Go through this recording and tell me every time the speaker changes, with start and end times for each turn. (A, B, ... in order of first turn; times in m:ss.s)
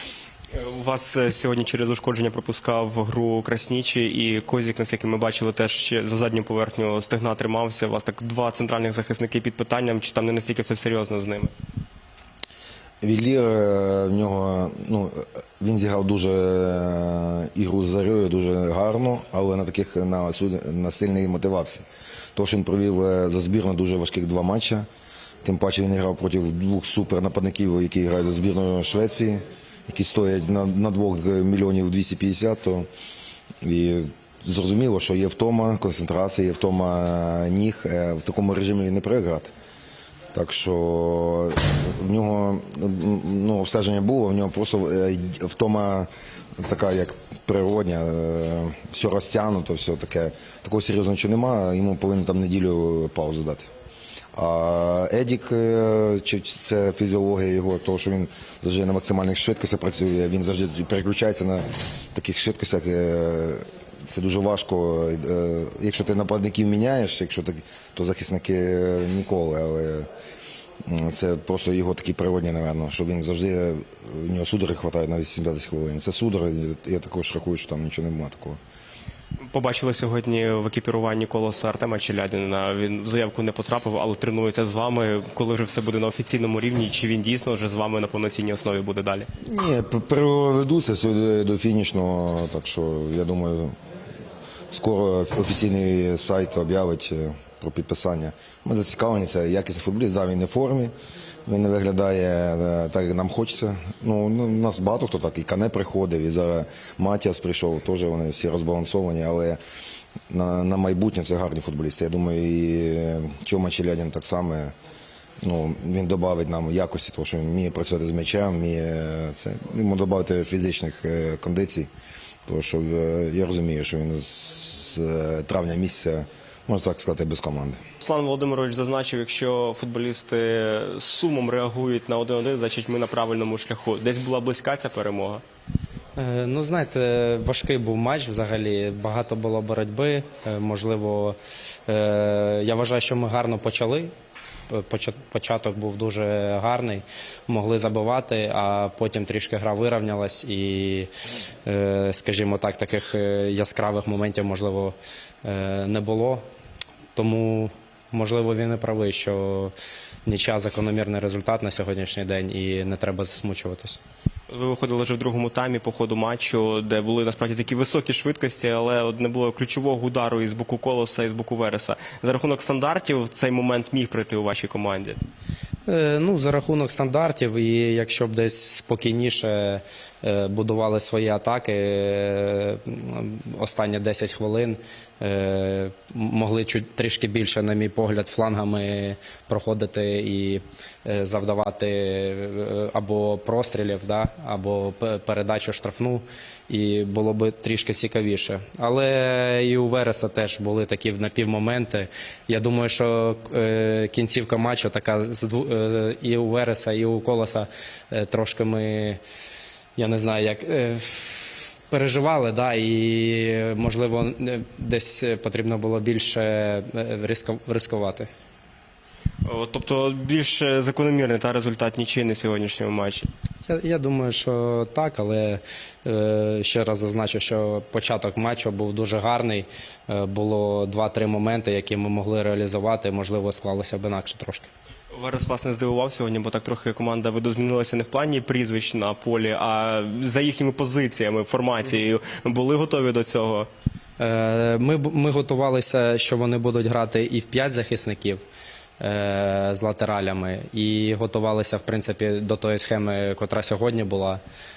0:00.5-0:11.5 A
0:13.0-0:24.8 B
0:25.4-0:32.9 B
0:33.6-0:39.5 B
0:40.3-0:53.7 B
0:54.3-1:10.1 B
1:10.8-1:18.6 B
1:19.5-1:29.3 A
1:29.4-1:33.7 B
1:34.7-1:40.9 B
1:41.4-1:49.6 B
1:50.3-1:54.7 B
1:55.4-2:01.9 B
2:02.4-2:07.8 B
2:08.0-2:15.4 A
2:16.2-2:21.4 C
2:21.9-2:24.1 C
2:24.7-2:31.1 C
2:31.6-2:36.4 C
2:37.1-2:39.7 C
2:40.2-2:44.0 C
2:44.5-2:55.2 A
2:55.8-3:29.2 C
3:30.0-3:38.3 C
3:39.4-3:43.3 A
3:43.7-3:54.7 C
3:55.1-4:03.7 A
4:04.2-4:08.4 C
4:09.0-4:14.4 C